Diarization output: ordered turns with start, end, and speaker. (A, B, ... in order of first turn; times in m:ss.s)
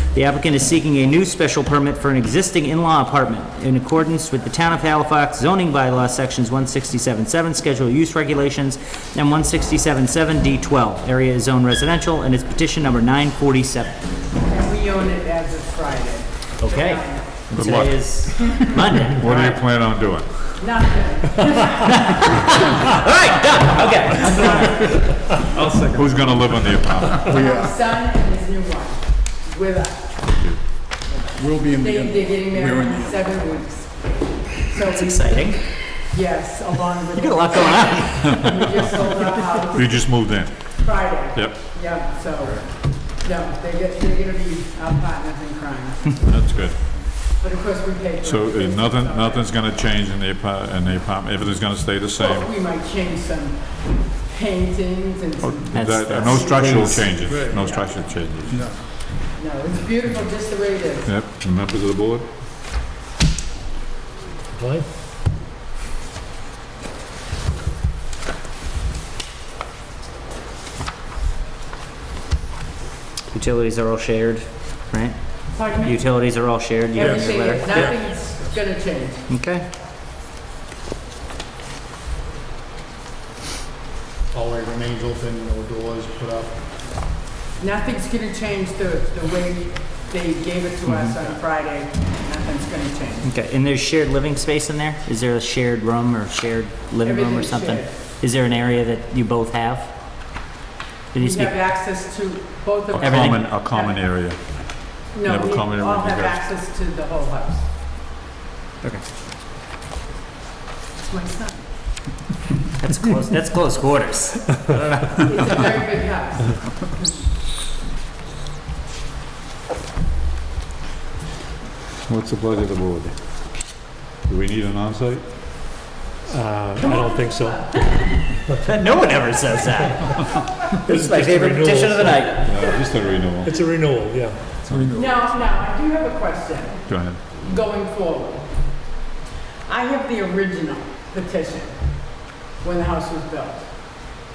0:00.1-0:14.0 A
0:14.4-0:17.3 B
0:16.6-0:17.0 A
0:17.5-0:18.0 C
0:17.5-0:19.5 A
0:19.1-0:20.3 C
0:20.6-0:22.2 B
0:21.7-0:25.0 A
0:24.1-0:25.1 B
0:25.6-0:26.1 D
0:25.9-0:27.4 C
0:27.1-0:30.2 B
0:27.4-0:27.7 D
0:31.5-0:31.9 D
0:31.6-0:34.0 B
0:34.5-0:35.6 B
0:34.8-0:35.6 A
0:36.1-0:40.0 B
0:37.2-0:39.1 A
0:39.7-0:40.6 C
0:40.8-0:42.6 B
0:43.2-0:46.2 B
0:46.2-0:46.8 C
0:47.4-0:49.5 B
0:48.2-0:52.5 C
0:52.2-0:53.6 B
0:54.3-0:57.8 B
0:55.4-0:58.6 C
0:55.7-0:57.2 A
0:59.4-1:01.1 B
1:01.0-1:02.3 C
1:04.6-1:04.8 E
1:13.3-1:15.2 A
1:15.5-1:16.0 B
1:15.8-1:17.9 A
1:17.0-1:19.3 B
1:19.3-1:19.7 A
1:24.3-1:26.5 D
1:27.6-1:33.3 B
1:30.9-1:31.2 C
1:33.2-1:39.9 A
1:37.0-1:37.9 B
1:41.1-1:41.6 A
1:41.2-1:44.0 B
1:42.9-1:44.4 C
1:43.0-1:43.4 A
1:45.1-1:47.6 B
1:45.2-1:46.4 C
1:51.0-1:51.6 B
1:52.8-1:55.7 A
1:55.2-1:56.6 B
2:02.1-2:03.2 C
2:04.3-2:05.2 C
2:06.3-2:08.6 E
2:06.8-2:08.3 B
2:08.6-2:12.5 A
2:10.8-2:12.2 E
2:12.4-2:13.6 C
2:13.5-2:14.4 E
2:14.6-2:15.1 D
2:14.9-2:16.8 B
2:16.9-2:17.4 C
2:17.4-2:18.5 B
2:19.7-2:21.7 B
2:22.6-2:23.7 B